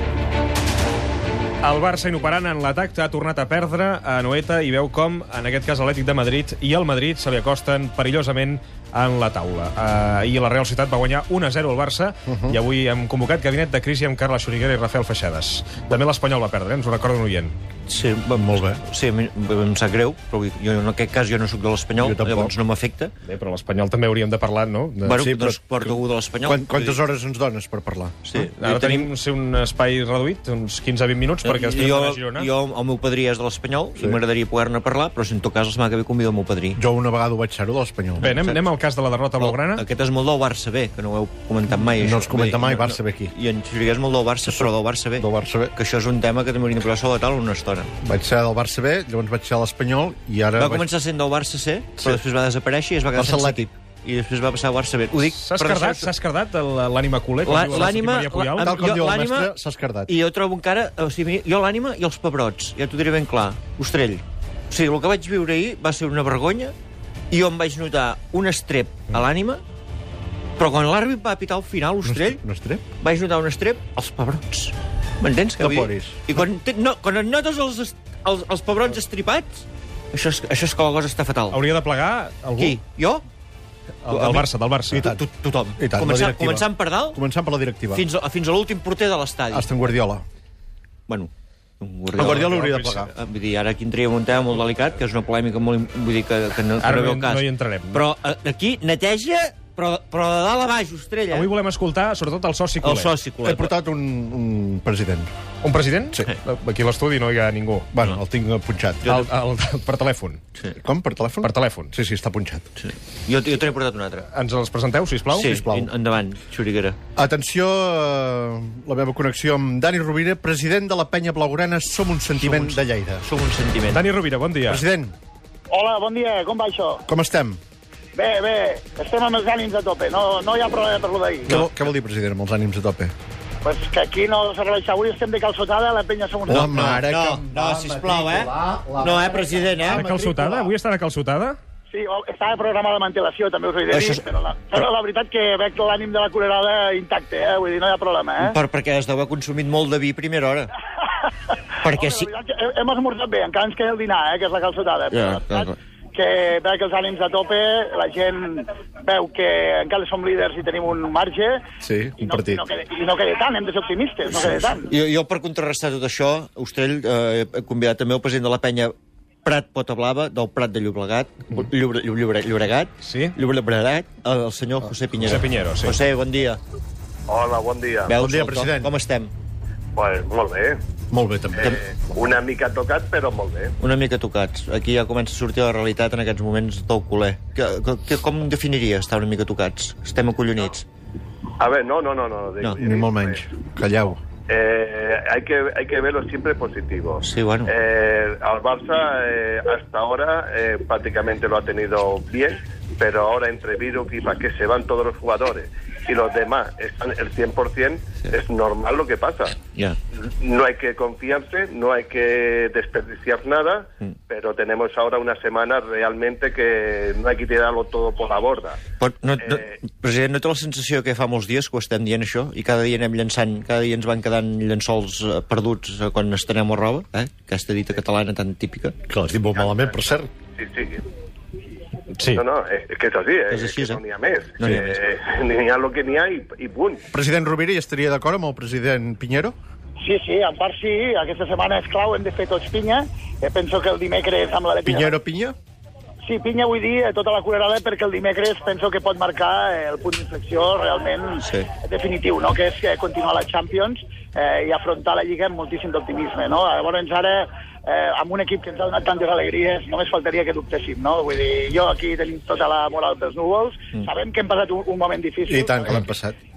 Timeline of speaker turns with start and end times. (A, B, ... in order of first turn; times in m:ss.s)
0:01.6-0:17.5 A
0:17.9-0:23.1 B
0:18.4-0:18.8 C
0:22.0-0:22.5 C
0:23.2-0:25.2 A
0:25.0-0:27.0 B
0:25.2-0:25.6 C
0:26.4-0:28.2 C
0:28.3-0:29.1 B
0:28.4-0:32.5 A
0:31.4-0:36.8 B
0:36.8-0:38.2 C
0:38.2-0:38.6 B
0:38.2-0:39.8 A
0:39.4-0:47.9 B
0:41.7-0:43.3 C
0:45.2-0:45.7 C
0:48.0-0:50.9 C
0:50.6-0:56.1 B
0:53.2-0:53.6 C
0:55.4-0:58.8 A
0:57.4-1:06.8 B
0:58.6-1:00.1 C
1:07.3-1:09.6 B
1:10.6-1:12.4 B
1:12.2-1:12.8 C
1:13.0-1:21.6 B
1:15.6-1:16.2 C
1:21.5-1:22.8 A
1:22.6-1:23.2 B
1:24.0-1:25.1 A
1:24.1-1:27.2 B
1:25.8-1:26.6 C
1:27.1-1:28.0 C
1:27.9-1:29.8 B
1:29.5-1:30.2 C
1:31.1-1:41.5 B
1:32.3-1:32.8 C
1:32.4-1:33.1 A
1:36.8-1:38.0 A
1:41.3-1:43.1 A
1:42.8-1:43.7 B
1:43.4-1:45.3 C
1:45.6-1:48.0 A
1:48.0-1:49.1 C
1:49.0-1:50.4 A
1:50.8-1:52.7 C
1:51.4-1:52.0 A
1:52.8-1:54.3 B
1:54.3-1:55.6 A
1:55.3-1:57.0 B
1:55.5-1:55.9 C
1:57.2-2:03.2 C
2:02.4-2:04.0 B
2:03.9-2:04.8 A
2:04.7-2:05.1 C
2:05.7-2:07.0 D
2:07.1-2:07.6 C
2:08.2-2:11.6 D
2:11.5-2:11.7 B
2:11.5-2:13.1 C
2:13.6-2:16.9 D
2:16.5-2:19.9 C
2:16.5-2:20.1 B
2:19.9-2:21.6 A
2:21.9-2:28.6 D
2:23.9-2:24.3 B
2:28.4-2:30.7 B
2:31.8-2:32.3 B
2:31.9-2:41.6 D
2:35.1-2:35.6 B
2:41.8-2:42.6 C
2:42.2-2:44.9 D
2:44.3-2:48.9 B
2:49.4-2:56.6 B
2:53.0-2:53.3 A
2:55.2-2:55.9 A
2:57.3-2:58.2 E
2:58.1-2:59.3 B
2:58.2-2:58.9 C
3:00.0-3:00.8 E
3:01.1-3:01.6 C
3:01.5-3:03.8 E
3:03.8-3:10.8 B
3:11.6-3:13.6 E
3:12.6-3:12.9 B
3:12.9-3:14.2 C
3:14.5-3:29.6 E
3:17.2-3:17.7 B
3:30.4-3:38.8 E
3:39.0-3:49.0 B
3:49.1-3:50.3 C
3:49.5-3:50.0 E
3:50.6-3:51.0 E
3:52.2-3:52.5 A
3:52.3-3:57.0 E
3:53.5-3:54.0 B
3:54.6-3:55.0 B
3:57.1-3:59.6 C
4:00.0-4:05.2 D
4:04.8-4:05.6 C
4:06.2-4:26.0 D
4:11.4-4:11.7 B
4:25.5-4:26.4 C